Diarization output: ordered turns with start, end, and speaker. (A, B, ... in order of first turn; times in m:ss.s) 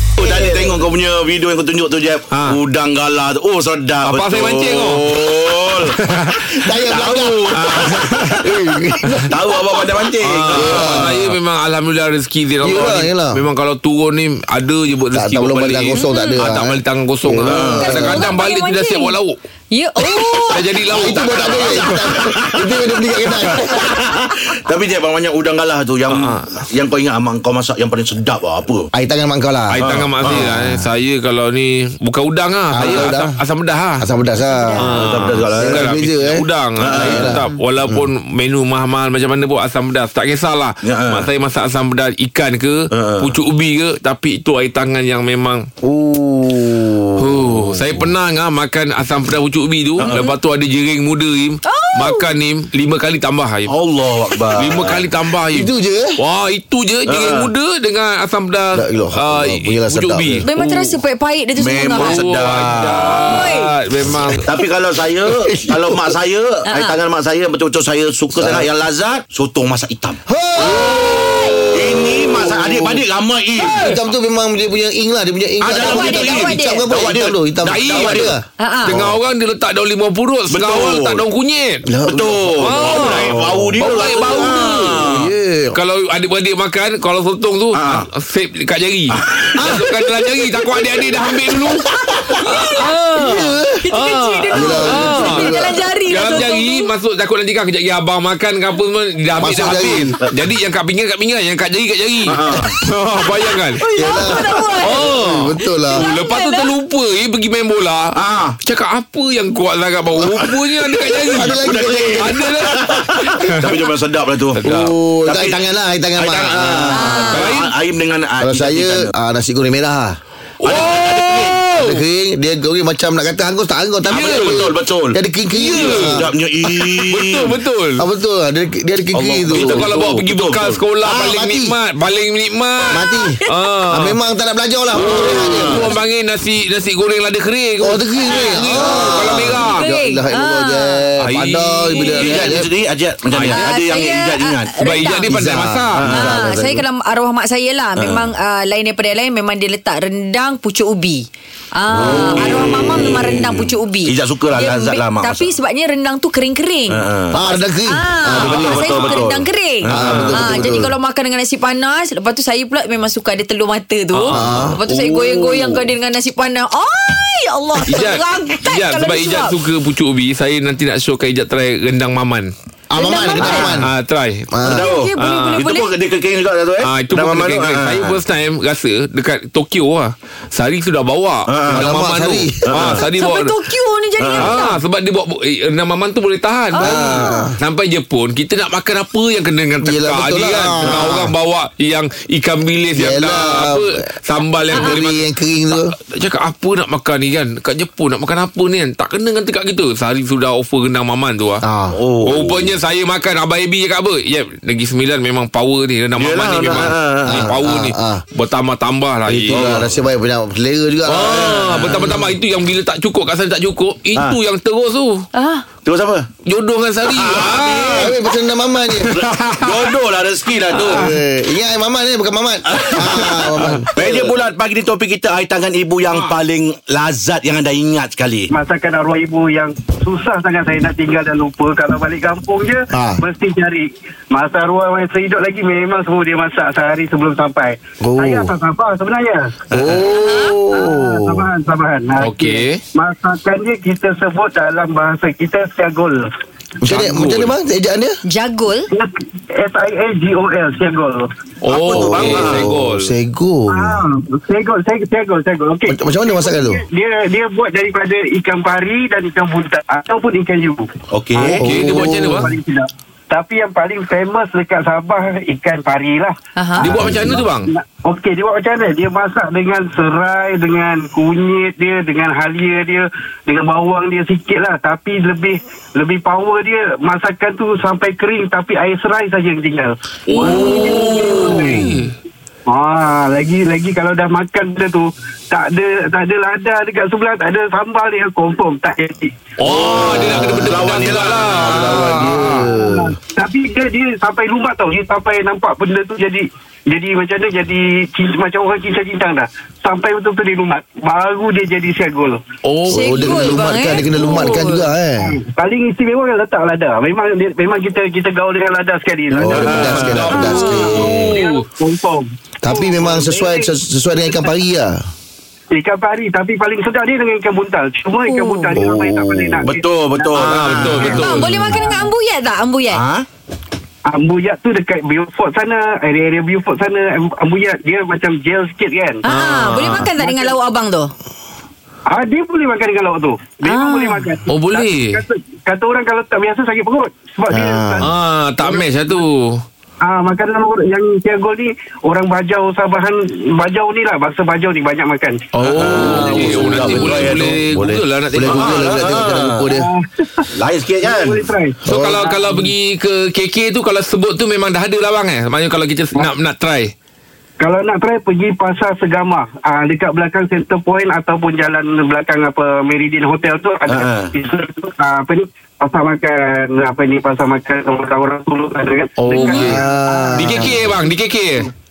0:00.2-0:06.0 A
0:00.2-0:00.6 B
0:02.3-0:02.6 C
0:04.0-0:05.2 C
0:05.9-0:06.5 C
0:06.6-0:09.4 B
0:06.7-0:08.4 A
0:07.5-0:08.5 C
0:09.3-0:11.3 A
0:10.2-0:19.3 C
0:10.5-0:11.3 B
0:12.6-0:13.4 B
0:15.1-0:18.3 B
0:15.9-0:16.4 D
0:17.4-0:17.8 A
0:17.8-0:19.2 D
0:19.7-0:20.6 D
0:20.5-0:22.2 C
0:20.9-0:23.9 B
0:21.2-0:22.7 A
0:23.6-0:28.9 A
0:26.1-0:26.5 C
0:28.9-0:30.8 B
0:29.7-0:34.0 C
0:29.8-0:30.4 A
0:32.7-0:33.3 B
0:34.0-0:35.0 B
0:34.5-0:34.9 D
0:34.8-0:45.7 C
0:34.9-0:35.9 A
0:35.5-0:37.4 B
0:36.8-0:37.3 A
0:40.8-0:41.2 A
0:42.9-0:43.3 A
0:45.8-0:47.3 B
0:47.2-0:53.7 C
0:51.6-0:52.3 D
0:53.7-0:55.0 A
0:54.6-1:01.0 C
0:55.5-0:56.2 B
0:57.1-0:57.5 A
0:58.7-1:00.4 B
1:00.4-1:02.2 D
1:01.6-1:03.5 A
1:01.9-1:04.6 C
1:03.2-1:03.7 D
1:04.3-1:10.2 A
1:05.4-1:06.1 B
1:06.6-1:06.9 D
1:08.4-1:08.7 B
1:10.3-1:13.0 B
1:10.6-1:11.6 D
1:11.7-1:13.9 A
1:13.6-1:14.0 C
1:13.7-1:18.4 B
1:15.6-1:18.4 A
1:15.7-1:16.9 D
1:17.7-1:18.3 C
1:18.6-1:18.9 D
1:18.8-1:21.8 C
1:20.5-1:21.2 A
1:21.9-1:25.8 B
1:22.0-1:25.3 A
1:22.6-1:25.0 C
1:25.7-1:31.9 C
1:27.7-1:28.1 A
1:29.1-1:29.7 A
1:29.6-1:30.5 B
1:32.3-1:36.9 D
1:32.4-1:35.6 C
1:33.2-1:33.8 B
1:34.5-1:35.8 B
1:36.1-1:43.8 C
1:39.4-1:40.1 B
1:42.2-1:42.8 A
1:43.8-1:45.1 D
1:44.0-1:46.0 B
1:44.8-1:48.1 C
1:45.9-1:46.7 D
1:48.1-1:48.6 A
1:48.6-1:53.9 C
1:50.2-1:50.5 A
1:51.1-1:55.6 A
1:51.3-1:52.6 B
1:54.6-1:54.9 C
1:54.6-1:57.3 B
1:56.2-1:59.1 A
1:56.9-1:57.5 D
1:57.3-1:57.7 C
1:58.4-2:00.2 B
2:00.6-2:02.0 C
2:00.6-2:01.9 A
2:01.8-2:06.3 B
2:04.1-2:07.5 A
2:04.1-2:04.7 C
2:05.6-2:08.0 C
2:08.0-2:09.9 B
2:09.1-2:10.8 A
2:09.5-2:14.2 C
2:11.0-2:11.7 B
2:12.9-2:13.4 B
2:13.1-2:13.5 D
2:13.9-2:15.9 B
2:14.9-2:15.9 A
2:15.0-2:19.8 C
2:17.8-2:22.7 B
2:18.8-2:19.5 A
2:19.8-2:21.0 D
2:21.2-2:22.6 C
2:22.1-2:24.8 A
2:23.5-2:25.3 D
2:24.8-2:26.0 C
2:25.3-2:26.8 B
2:26.0-2:26.3 A
2:26.1-2:49.5 D
2:28.0-2:28.3 A
2:31.9-2:35.5 A
2:36.9-2:37.4 A
2:37.3-2:39.1 B
2:38.4-2:40.6 A
2:39.9-2:40.9 B
2:40.0-2:40.3 C
2:44.1-2:44.7 C
2:44.3-2:44.8 B
2:44.5-2:45.8 A
2:47.9-2:52.5 C
2:52.9-2:53.9 B
2:53.0-2:53.7 D
2:53.4-2:54.6 C
2:54.5-2:54.8 B
2:54.6-2:58.2 A
2:54.7-2:55.9 D
2:55.2-2:55.6 C
2:56.8-3:03.5 C
3:01.5-3:01.9 A
3:01.7-3:02.9 B
3:02.6-3:03.0 A
3:03.1-3:04.8 D
3:04.2-3:04.6 A
3:04.4-3:15.2 C
3:06.7-3:07.5 D
3:06.8-3:07.6 B
3:09.8-3:11.3 B
3:13.0-3:14.0 B
3:14.7-3:15.9 B
3:16.0-3:21.6 C
3:21.6-3:22.0 B
3:21.9-3:22.6 A
3:22.2-3:29.8 C
3:26.2-3:27.5 A
3:27.3-3:28.2 B
3:29.3-3:32.3 B
3:29.5-3:29.8 A
3:31.1-3:35.2 C
3:31.2-3:32.2 A
3:35.3-3:35.6 D
3:35.8-3:36.3 A
3:36.4-3:38.1 C
3:37.0-3:38.1 A
3:37.9-3:39.2 B
3:39.0-3:39.9 C
3:39.1-3:41.1 A
3:40.8-3:44.3 B
3:42.7-3:48.5 A
3:48.5-3:59.6 E
3:52.9-3:53.2 B
3:58.0-3:58.5 B
3:59.7-4:01.4 B
3:59.9-4:00.6 D
4:00.7-4:06.3 E
4:02.2-4:02.8 C
4:06.8-4:08.2 B
4:06.9-4:07.5 C
4:08.2-4:08.9 D
4:08.9-4:11.3 E
4:11.6-4:13.1 C
4:11.7-4:12.6 A
4:11.9-4:14.0 B
4:13.7-4:20.9 E
4:15.9-4:16.8 B
4:21.1-4:21.6 A
4:21.4-4:22.5 C
4:21.5-4:26.3 E
4:21.6-4:22.5 B
4:26.6-4:26.8 D
4:26.8-4:27.7 C
4:26.8-4:27.4 B
4:26.9-4:42.0 E
4:40.3-4:42.1 C
4:42.7-4:49.3 E
4:49.6-4:52.7 C
4:49.6-4:51.7 A
4:50.0-4:50.7 B
4:51.6-4:53.2 B
4:52.6-5:02.4 E
5:02.6-5:03.5 C
5:02.9-5:04.8 D
5:02.9-5:05.3 B
5:04.2-5:04.5 E
5:05.2-5:13.7 E
5:09.3-5:11.4 B
5:09.4-5:10.3 A
5:09.6-5:11.6 C
5:10.3-5:10.9 D
5:12.6-5:15.0 B
5:15.7-5:22.1 E
5:18.3-5:18.7 D
5:18.8-5:19.7 B
5:19.6-5:21.4 A
5:20.4-5:21.6 C
5:21.0-5:23.0 D
5:22.9-5:23.2 A
5:24.0-5:29.2 E
5:29.2-5:31.1 D
5:29.3-5:30.1 C
5:29.9-5:30.6 E
5:32.1-5:39.1 E
5:33.6-5:34.2 D
5:34.5-5:35.2 C
5:37.5-5:38.0 B
5:38.0-5:39.6 C
5:40.0-5:45.5 E
5:45.5-5:49.0 C
5:45.6-5:47.4 A
5:45.8-5:49.9 B
5:48.4-5:49.6 A
5:49.6-5:50.4 E
5:50.5-5:51.5 A
5:51.0-5:51.8 E
5:51.9-5:52.4 B
5:51.9-5:56.9 C
5:57.6-6:10.8 E
6:03.9-6:04.3 A
6:09.2-6:11.7 C
6:09.4-6:11.0 B